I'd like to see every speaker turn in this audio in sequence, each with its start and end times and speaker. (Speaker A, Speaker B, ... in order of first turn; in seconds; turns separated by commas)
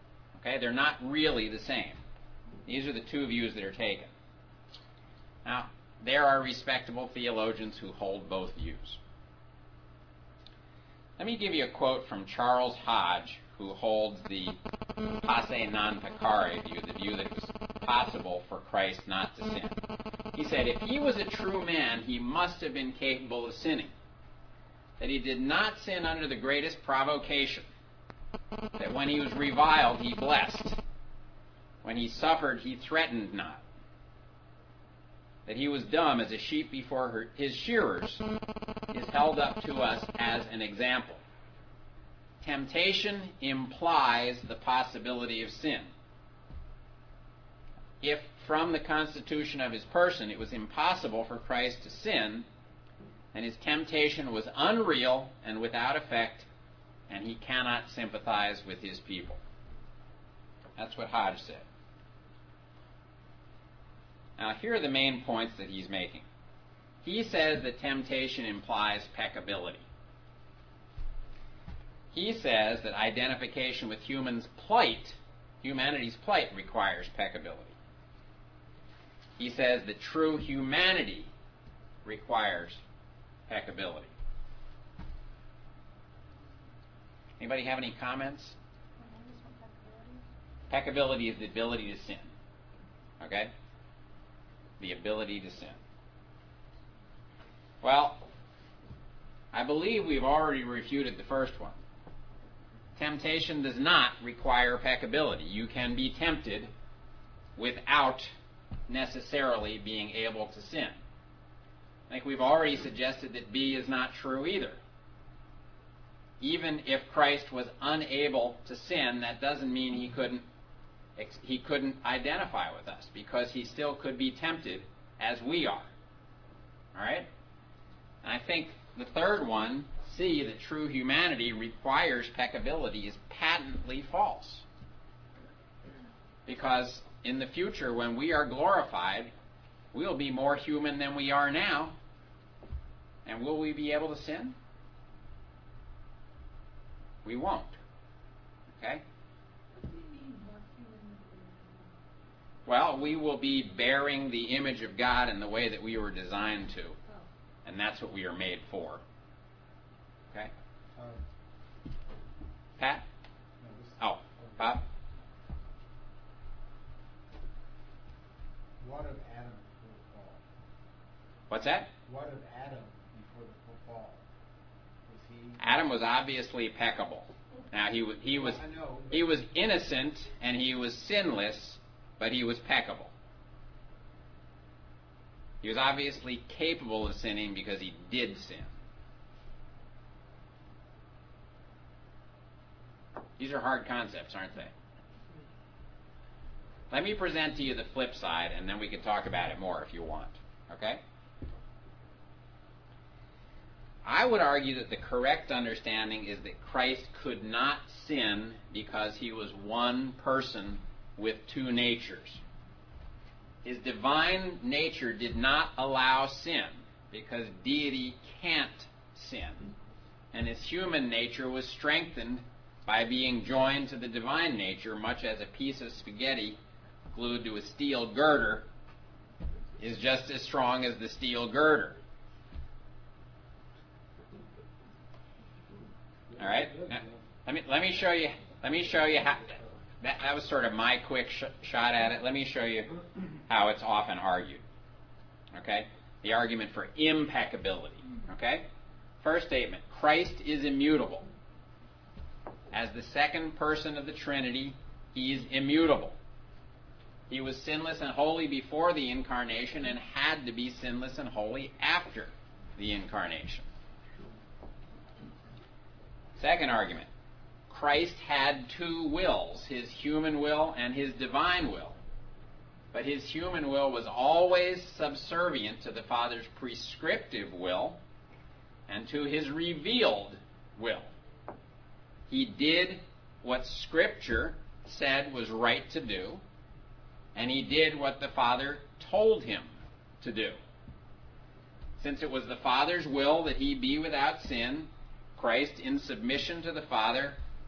Speaker A: 0.3-2.0, Speaker A: 2.7-4.1, Speaker A: 5.5-9.0, Speaker A: 11.2-14.6, Speaker A: 15.2-19.8, Speaker A: 20.3-23.9, Speaker A: 25.0-27.7, Speaker A: 28.8-30.8, Speaker A: 31.8-33.6, Speaker A: 35.5-38.2, Speaker A: 38.9-41.2, Speaker A: 42.4-45.9, Speaker A: 48.0-52.5, Speaker A: 53.3-56.5, Speaker A: 57.1-59.4, Speaker A: 60.8-61.6, Speaker A: 64.4-66.2, Speaker A: 67.0-69.8, Speaker A: 72.1-77.8, Speaker A: 79.4-81.3, Speaker A: 82.0-82.8, Speaker A: 83.5-84.1, Speaker A: 87.4-88.5, Speaker B: 89.0-90.2, Speaker A: 90.7-92.3, Speaker A: 93.2-93.5, Speaker A: 94.8-95.8, Speaker A: 97.8-98.3, Speaker A: 99.5-101.8, Speaker A: 103.0-106.7, Speaker A: 107.6-108.3, Speaker A: 108.9-111.0, Speaker A: 112.1-114.8, Speaker A: 116.4-120.5, Speaker A: 121.2-125.9, Speaker A: 126.9-127.3, Speaker A: 128.2-134.6, Speaker A: 136.5-139.3, Speaker A: 139.9-142.0, Speaker A: 143.3-144.6, Speaker A: 147.2-147.8, Speaker A: 148.8-149.0, Speaker B: 149.8-152.0, Speaker A: 152.7-157.0, Speaker A: 157.7-159.0, Speaker C: 160.9-161.2, Speaker A: 162.8-163.0, Speaker C: 163.6-164.8, Speaker A: 164.0-164.8, Speaker C: 168.8-170.4, Speaker A: 171.5-171.9, Speaker C: 172.1-174.2, Speaker C: 175.1-175.6, Speaker A: 175.6-183.1, Speaker C: 178.3-179.3, Speaker A: 185.6-188.7, Speaker A: 193.4-194.7, Speaker A: 196.9-201.0, Speaker A: 204.0-212.4, Speaker A: 213.6-219.7, Speaker A: 220.3-226.6, Speaker A: 227.1-228.7, Speaker A: 229.8-232.0, Speaker C: 236.3-237.1, Speaker A: 236.4-244.6, Speaker A: 245.5-248.7, Speaker A: 249.2-251.3, Speaker A: 252.7-256.2, Speaker A: 257.3-263.7, Speaker A: 266.4-267.1, Speaker A: 267.7-272.0, Speaker A: 272.9-278.0, Speaker A: 278.9-281.1, Speaker A: 282.3-286.4, Speaker A: 287.4-290.6, Speaker A: 292.0-297.4